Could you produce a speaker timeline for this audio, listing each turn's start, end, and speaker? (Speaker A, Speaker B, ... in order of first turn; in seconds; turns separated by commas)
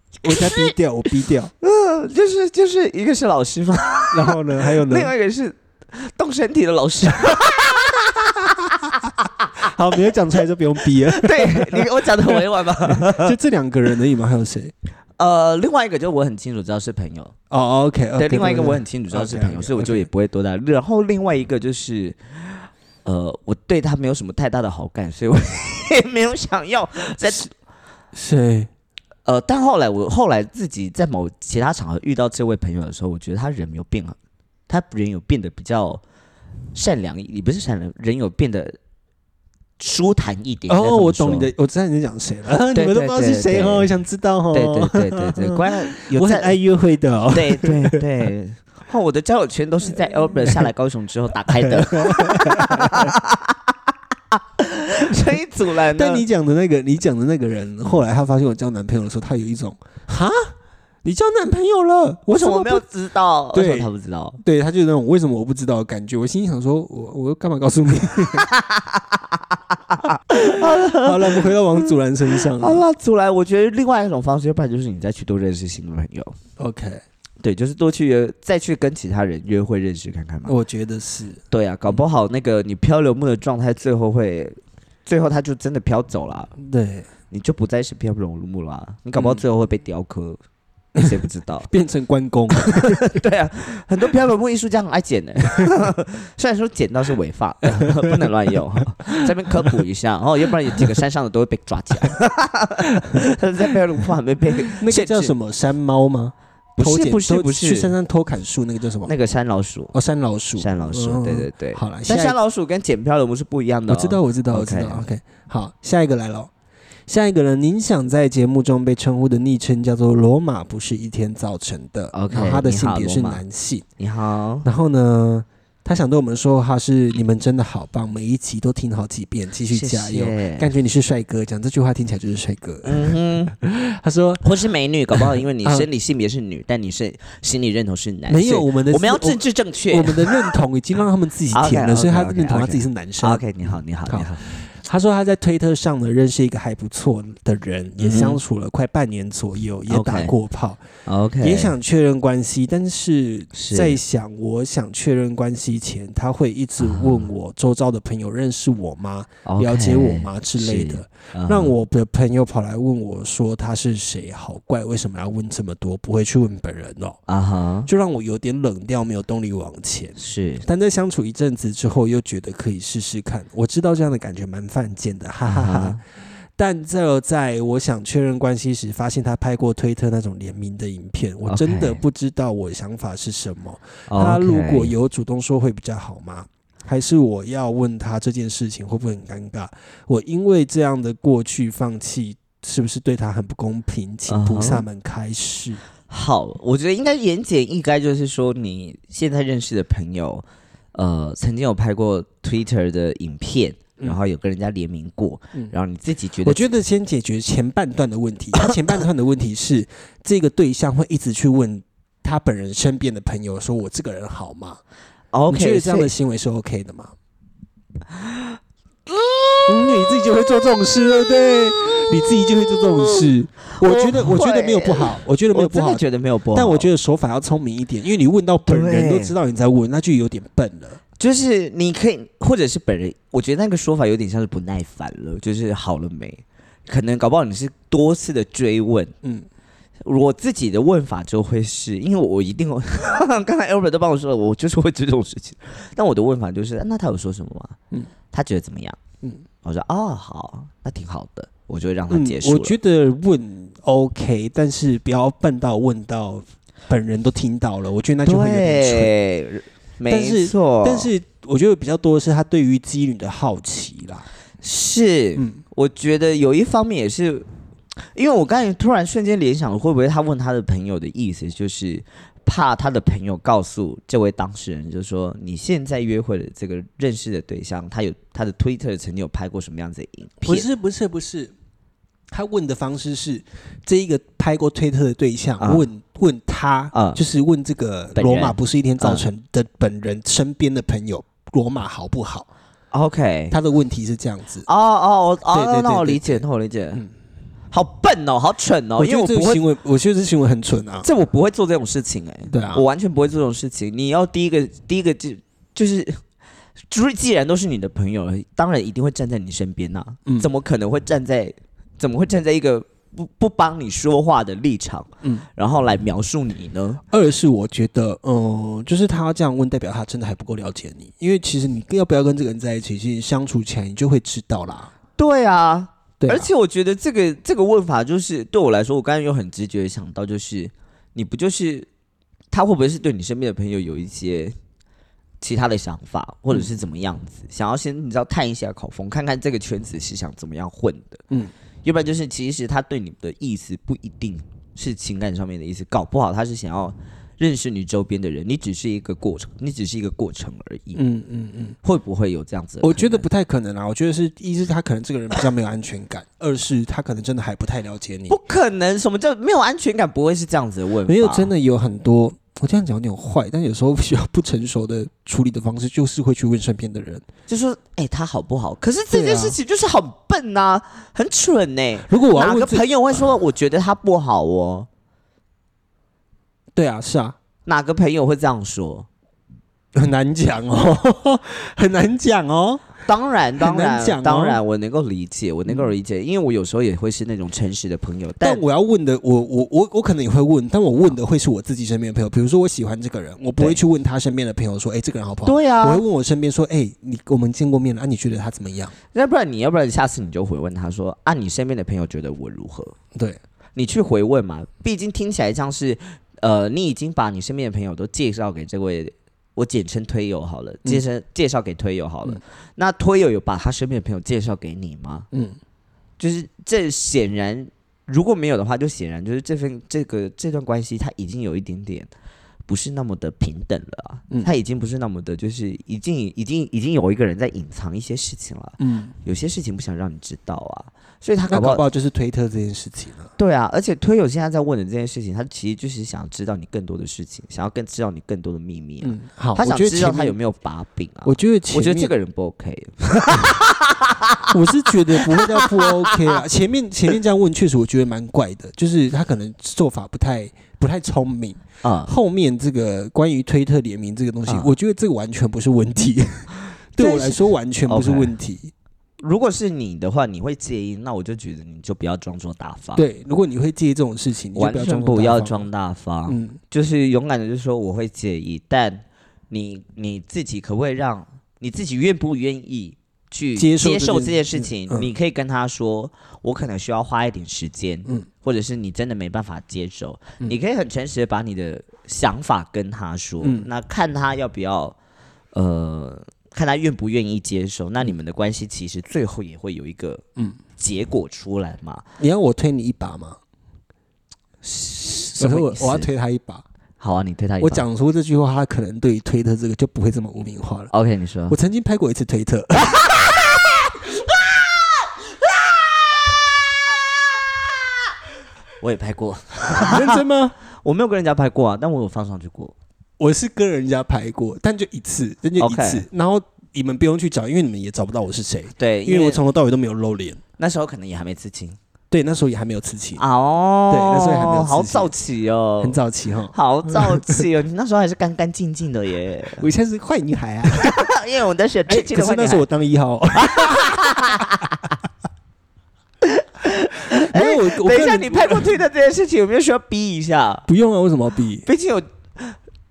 Speaker A: 0.2-1.5, Speaker B: 0.3-0.6, Speaker B: 1.6-9.5, Speaker A: 4.1-5.1, Speaker A: 9.6-14.7, Speaker B: 11.1-13.4, Speaker B: 15.2-17.3, Speaker A: 17.5-20.1, Speaker B: 18.2-27.5, Speaker A: 28.1-28.7, Speaker B: 29.3-34.2, Speaker B: 34.7-36.0, Speaker B: 36.7-38.8, Speaker B: 39.8-41.5, Speaker A: 40.7-48.0, Speaker B: 42.7-43.9, Speaker B: 44.5-46.5, Speaker B: 47.3-53.7, Speaker A: 51.6-53.1, Speaker B: 54.3-56.2, Speaker A: 55.9-60.5, Speaker A: 61.0-62.8, Speaker B: 62.3-64.4, Speaker A: 63.5-63.9, Speaker A: 64.4-68.5, Speaker B: 68.4-69.4, Speaker B: 69.9-71.5, Speaker A: 70.7-72.8, Speaker B: 72.4-76.3, Speaker A: 76.6-77.0, Speaker B: 77.4-80.5, Speaker A: 80.5-81.4, Speaker B: 81.5-86.5, Speaker A: 86.6-87.1, Speaker B: 87.3-90.4, Speaker A: 89.2-89.4, Speaker B: 91.0-91.7, Speaker A: 91.7-93.1, Speaker B: 92.6-105.3, Speaker A: 104.8-109.1, Speaker B: 106.8-107.9, Speaker B: 109.0-109.9, Speaker A: 109.9-112.4, Speaker B: 110.6-115.1, Speaker A: 113.9-116.5, Speaker A: 117.1-123.8, Speaker B: 122.1-123.4, Speaker B: 124.0-124.7, Speaker A: 124.6-134.4, Speaker B: 129.7-130.7, Speaker B: 132.8-133.5, Speaker B: 134.4-140.5, Speaker A: 135.1-135.9, Speaker A: 138.3-143.4, Speaker B: 141.5-144.5, Speaker A: 144.1-150.8, Speaker B: 148.0-148.4, Speaker B: 149.9-150.3, Speaker B: 151.1-151.7, Speaker A: 151.4-167.2, Speaker B: 153.5-154.0, Speaker B: 156.8-157.3, Speaker B: 159.5-161.8, Speaker B: 167.3-167.9, Speaker A: 167.9-176.0, Speaker B: 170.2-170.7, Speaker B: 175.5-176.0, Speaker A: 176.6-195.8, Speaker B: 181.5-182.0, Speaker B: 184.1-184.9, Speaker B: 194.3-194.8, Speaker B: 196.1-206.7, Speaker A: 206.4-214.8, Speaker B: 215.3-216.1, Speaker A: 215.5-217.1, Speaker B: 219.2-219.9, Speaker A: 219.7-226.0, Speaker B: 223.0-226.9, Speaker A: 226.5-231.0, Speaker B: 228.7-229.3, Speaker B: 231.2-239.1, Speaker B: 240.0-247.8, Speaker B: 248.3-249.0, Speaker B: 249.6-252.8, Speaker A: 252.1-259.1, Speaker B: 258.2-261.1, Speaker A: 260.1-264.3, Speaker B: 264.6-267.5, Speaker B: 268.1-280.7, Speaker A: 280.4-281.5, Speaker A: 282.3-292.5, Speaker B: 285.6-285.9, Speaker B: 286.9-287.2, Speaker B: 288.2-289.3, Speaker B: 292.9-293.6, Speaker A: 293.5-294.7, Speaker B: 294.7-297.0, Speaker A: 295.5-296.4, Speaker B: 297.7-299.6, Speaker A: 299.0-301.1, Speaker B: 301.0-306.2, Speaker A: 302.5-302.8, Speaker B: 306.9-317.0, Speaker A: 317.1-324.9, Speaker B: 325.2-331.9, Speaker A: 326.2-326.5, Speaker B: 332.5-334.6, Speaker B: 335.4-341.2, Speaker B: 341.8-351.0, Speaker A: 350.9-351.8, Speaker B: 351.8-353.2, Speaker A: 352.8-358.4, Speaker B: 358.3-361.5, Speaker A: 361.1-367.2, Speaker B: 367.5-374.9, Speaker A: 369.1-369.6, Speaker A: 372.1-372.8, Speaker A: 376.8-377.4, Speaker B: 377.6-379.1, Speaker A: 379.9-382.8, Speaker B: 383.1-388.6, Speaker A: 383.6-384.6, Speaker A: 388.4-398.9, Speaker B: 395.4-396.0, Speaker B: 399.1-402.9, Speaker B: 403.8-415.3, Speaker A: 415.3-415.6, Speaker B: 416.2-422.1, Speaker B: 422.7-431.8, Speaker A: 428.8-429.1, Speaker A: 431.5-433.3, Speaker B: 433.4-444.5, Speaker A: 439.0-440.4, Speaker A: 441.2-442.1, Speaker A: 444.5-458.7, Speaker B: 445.2-446.4, Speaker B: 451.8-452.1, Speaker B: 454.5-454.7, Speaker B: 457.0-458.3, Speaker B: 459.2-463.0, Speaker A: 463.0-465.6, Speaker B: 464.6-485.0, Speaker A: 466.3-466.6, Speaker A: 473.6-475.1, Speaker A: 483.4-483.7, Speaker B: 485.5-490.2, Speaker B: 490.8-492.0, Speaker A: 492.2-493.4, Speaker B: 494.6-496.1, Speaker A: 495.4-496.6, Speaker B: 497.0-497.9, Speaker A: 497.6-500.9, Speaker B: 500.9-501.6, Speaker A: 501.5-503.6, Speaker B: 508.8-510.2, Speaker A: 509.7-510.6, Speaker B: 510.8-512.7, Speaker A: 513.2-520.4, Speaker B: 515.6-516.0, Speaker B: 518.8-519.4, Speaker B: 520.6-521.8, Speaker A: 522.1-523.2, Speaker B: 523.2-526.0, Speaker A: 523.9-525.1, Speaker A: 525.8-527.4, Speaker B: 526.5-529.6, Speaker A: 529.6-531.0, Speaker B: 530.7-532.6, Speaker A: 531.9-534.6, Speaker B: 533.4-534.7, Speaker B: 536.2-540.7, Speaker A: 537.2-538.7, Speaker A: 540.7-541.7, Speaker B: 541.6-542.6